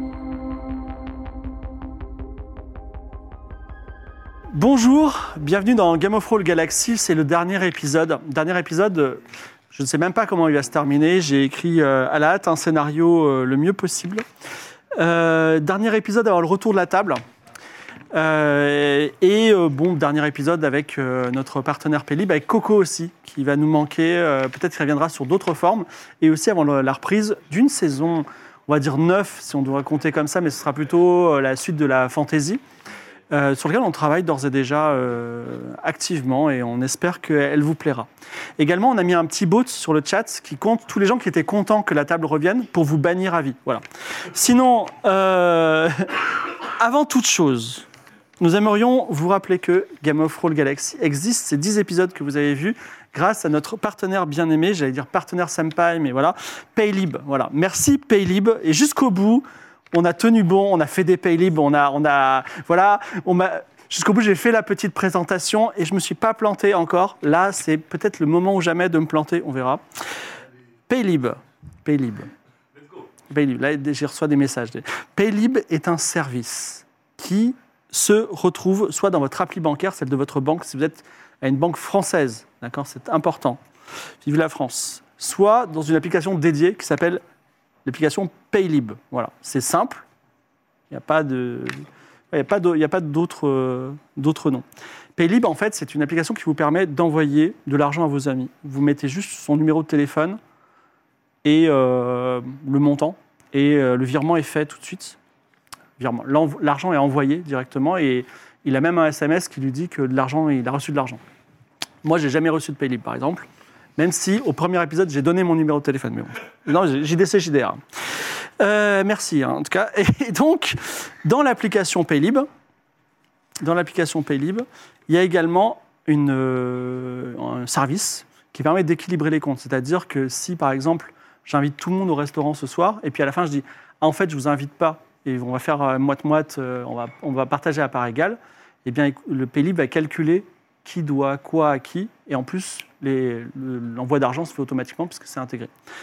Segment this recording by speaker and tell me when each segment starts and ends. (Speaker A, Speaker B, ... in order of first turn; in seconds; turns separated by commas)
Speaker A: 4.5-14.2, Speaker A: 15.0-17.2, Speaker A: 18.1-32.6, Speaker A: 33.3-43.8, Speaker A: 44.3-46.2, Speaker A: 46.8-47.9, Speaker A: 48.4-69.8, Speaker A: 70.9-72.3, Speaker A: 73.3-83.6, Speaker A: 84.2-87.2, Speaker A: 87.9-90.0, Speaker A: 90.9-94.6, Speaker A: 95.2-100.4, Speaker A: 101.4-105.2, Speaker A: 106.0-111.2, Speaker A: 112.0-117.8, Speaker A: 118.6-122.5, Speaker A: 123.6-145.7